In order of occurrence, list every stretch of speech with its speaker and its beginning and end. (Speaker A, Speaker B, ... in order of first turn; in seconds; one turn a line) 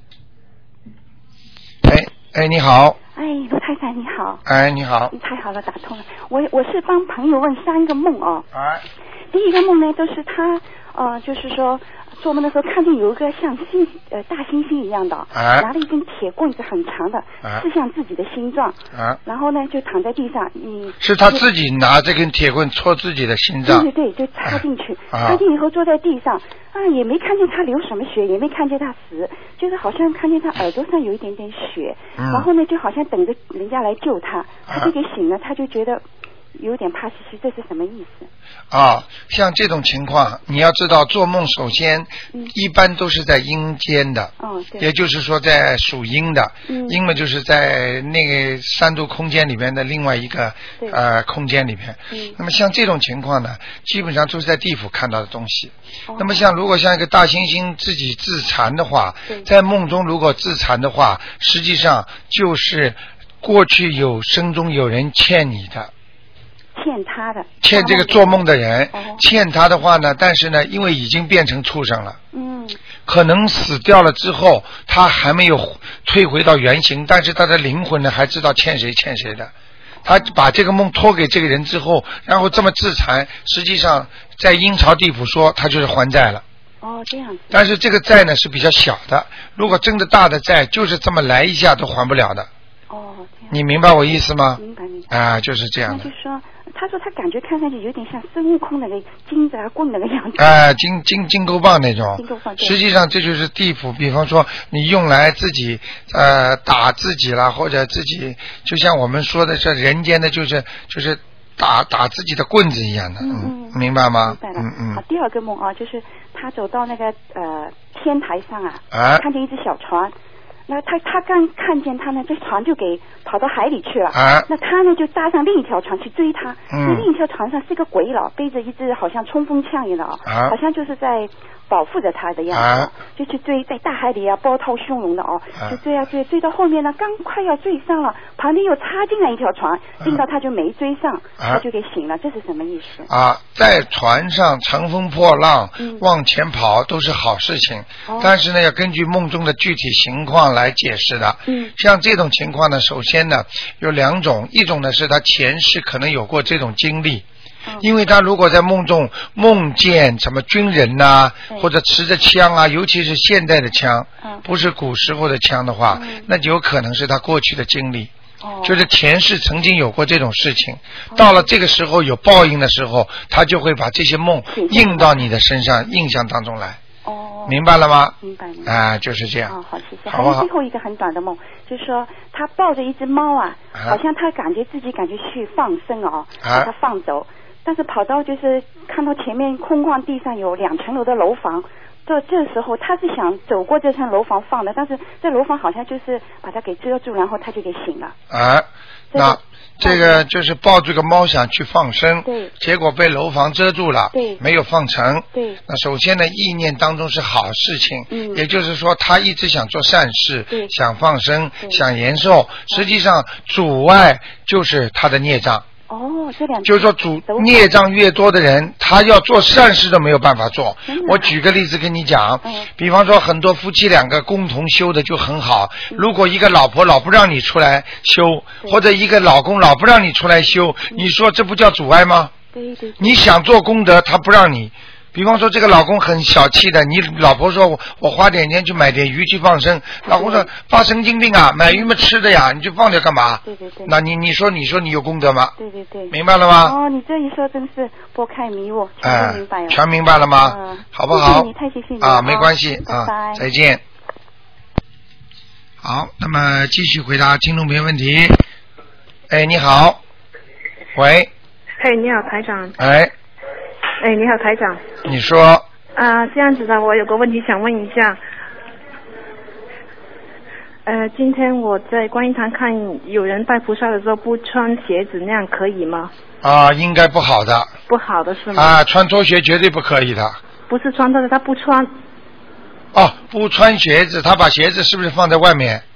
Speaker A: 1.8-3.0
Speaker B: 3.1-4.4
Speaker A: 4.5-5.1
Speaker B: 5.1-8.5
Speaker A: 8.5-8.8
Speaker B: 9.3-21.5
Speaker A: 15.3-15.7
Speaker A: 18.9-19.2
Speaker A: 21.0-23.9
Speaker B: 23.6-36.0
Speaker A: 24.4-25.4
Speaker A: 32.2-32.5
Speaker B: 36.5-38.3
Speaker A: 38.7-65.9
Speaker B: 44.4-44.9
Speaker B: 46.7-47.0
Speaker B: 52.1-52.4
Speaker B: 56.1-56.4
Speaker B: 66.8-69.2
Speaker A: 67.6-72.2
Speaker B: 72.3-72.8
Speaker A: 73.0-79.5
Speaker B: 80.0-80.3
Speaker A: 80.0-86.4
Speaker B: 86.8-87.6
Speaker A: 87.5-92.5
Speaker B: 92.9-95.1
Speaker A: 93.5-96.1
Speaker B: 95.8-100.5
Speaker A: 100.4-115.0
Speaker B: 102.2-102.8
Speaker B: 113.2-120.1
Speaker A: 118.9-119.2
Speaker B: 120.7-143.1
Speaker A: 124.1-124.5
Speaker A: 126.7-127.1
Speaker A: 130.2-130.5
Speaker A: 132.5-132.9
Speaker A: 143.1-157.2
Speaker B: 145.8-146.0
Speaker B: 148.1-148.3
Speaker B: 151.5-151.7
Speaker A: 157.8-168.1
Speaker B: 165.9-166.3
Speaker B: 168.4-168.8
Speaker A: 168.6-176.8
Speaker B: 171.1-171.4
Speaker B: 174.5-175.2
Speaker B: 177.0-177.6
Speaker A: 177.5-179.5
Speaker B: 178.2-178.7
Speaker B: 179.5-198.2
Speaker A: 180.1-180.5
Speaker A: 183.7-184.0
Speaker A: 186.4-186.7
Speaker A: 198.3-215.6
Speaker B: 199.1-200.2
Speaker B: 202.2-202.5
Speaker B: 204.1-204.4
Speaker B: 205.3-205.6
Speaker B: 208.1-208.4
Speaker B: 215.9-217.7
Speaker A: 216.6-232.3
Speaker B: 220.9-221.3
Speaker B: 222.4-222.7
Speaker B: 232.5-233.2
Speaker A: 233.0-245.5
Speaker B: 240.0-240.5
Speaker B: 243.4-243.9
Speaker B: 245.6-249.8
Speaker A: 246.1-246.8
Speaker A: 249.0-251.5
Speaker B: 250.4-253.4
Speaker A: 252.0-253.8
Speaker A: 255.8-258.4
Speaker A: 259.3-260.0
Speaker A: 260.9-261.3
Speaker C: 261.8-262.8
Speaker A: 262.8-263.1
Speaker C: 264.0-265.0
Speaker A: 265.0-265.6
Speaker C: 265.9-268.2
Speaker C: 270.8-276.1
Speaker A: 276.4-277.7
Speaker C: 277.9-278.8
Speaker A: 278.5-280.4
Speaker C: 280.7-281.9
Speaker A: 282.9-285.8